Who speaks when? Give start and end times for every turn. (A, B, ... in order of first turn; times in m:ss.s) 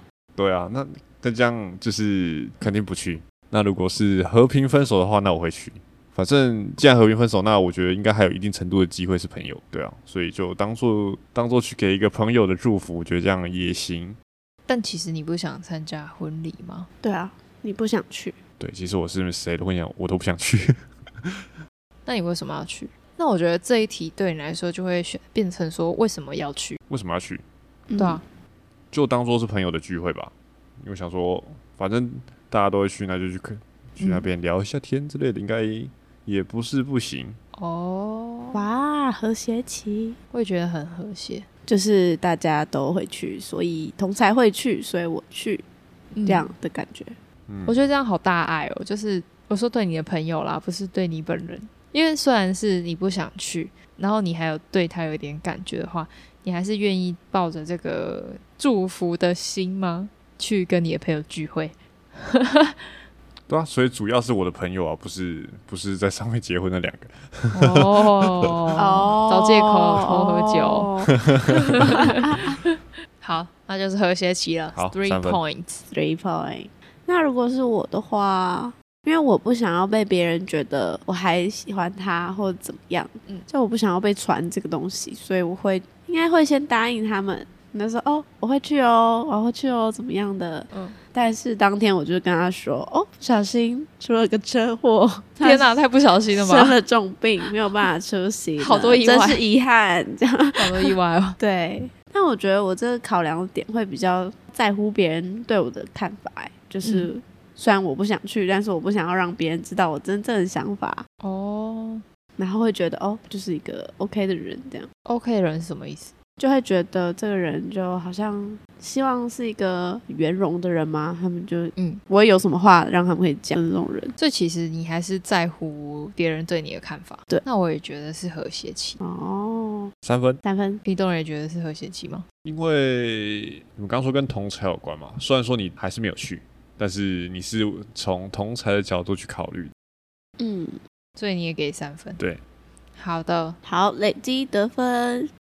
0:00.4-0:14.2 A
0:14.7-0:16.9 B
0:17.0-0:18.4 C
0:18.6-0:21.4 A
0:22.1-0:26.8 B
0:26.9-0:27.4 A
0:27.9-0:28.2 C
0:28.9-0:37.4 A
0:37.6-0:38.6 B
0:38.5-0:40.2 C
0:40.3-0:41.5 B
0:41.7-0:45.6 C
0:46.1-0:46.5 B
0:46.3-0:47.2 C
0:47.5-0:47.8 A
0:47.7-1:02.8 B
1:03.5-1:08.6 A
1:07.5-1:10.9 B
1:08.8-1:11.2 C
1:11.3-1:11.8 A
1:11.5-1:15.9 B
1:12.0-1:12.5 C
1:14.7-1:15.4 A
1:15.9-1:51.0 C
1:30.7-1:31.0 B
1:35.4-1:36.8 B
1:38.6-1:39.4 B
1:40.6-1:41.4 B
1:46.8-1:47.1 B
1:51.2-1:52.0 B
1:52.4-1:54.9 C
1:55.1-1:56.1 B
1:56.4-2:04.2 C
2:04.2-2:09.0 B
2:09.0-2:09.9 C
2:10.0-2:10.4 A
2:10.4-2:10.8 C
2:10.8-2:12.2 B
2:12.4-2:19.7 A
2:20.4-2:20.8 C
2:21.2-2:22.2 B
2:23.0-2:23.6 B
2:23.6-2:25.3 C